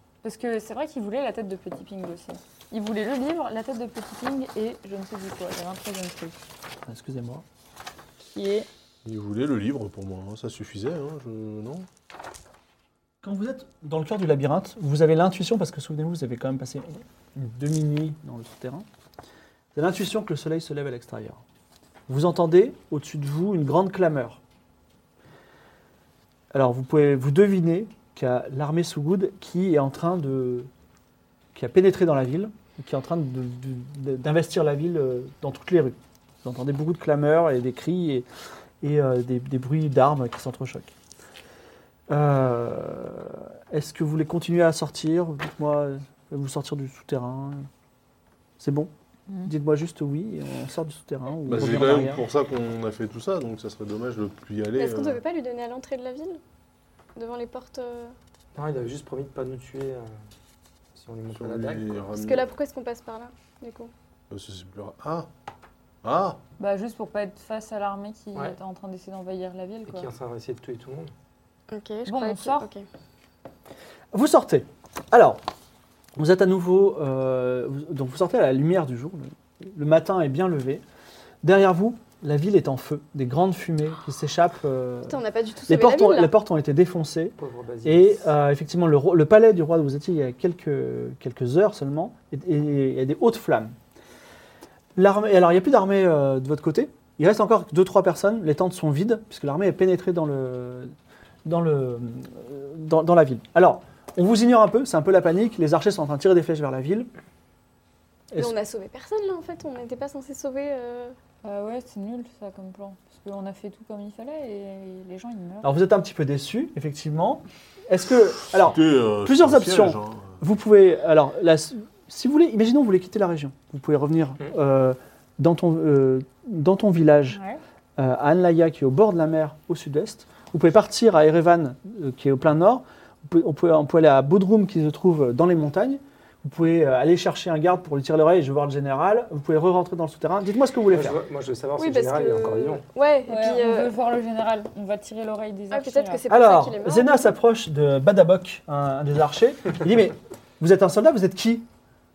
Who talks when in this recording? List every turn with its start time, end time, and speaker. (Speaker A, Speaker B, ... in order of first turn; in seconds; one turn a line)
Speaker A: 0.2-6.4
Speaker B: 6.9-7.4
Speaker A: 8.3-8.7
Speaker C: 9.1-11.9
Speaker B: 13.2-18.9
Speaker B: 19.8-21.4
Speaker B: 22.1-24.4
Speaker B: 26.5-30.7
Speaker B: 31.5-38.3
Speaker B: 38.8-40.9
Speaker B: 42.1-47.7
Speaker B: 48.6-48.9
Speaker B: 49.4-52.2
Speaker C: 51.5-55.2
Speaker D: 54.8-56.4
Speaker D: 57.2-58.1
Speaker E: 58.5-60.1
Speaker E: 61.0-62.0
Speaker C: 61.3-62.5
Speaker D: 62.1-63.9
Speaker C: 64.3-65.3
Speaker C: 66.0-66.4
Speaker A: 66.6-70.1
Speaker E: 69.9-71.1
Speaker D: 71.7-72.8
Speaker A: 72.1-72.7
Speaker B: 74.1-75.4
Speaker B: 76.2-80.8
Speaker B: 81.4-93.8
Speaker D: 85.1-86.3
Speaker E: 87.4-88.3
Speaker B: 95.0-100.9
Speaker B: 101.5-107.1
Speaker D: 108.4-111.2
Speaker A: 111.4-115.7
Speaker B: 115.6-127.4
Speaker C: 118.6-120.4
Speaker A: 127.3-127.6
Speaker B: 128.0-141.2
Speaker E: 140.9-142.8
Speaker D: 141.8-143.9
Speaker A: 143.3-146.2
Speaker D: 145.7-147.3
Speaker B: 146.3-151.7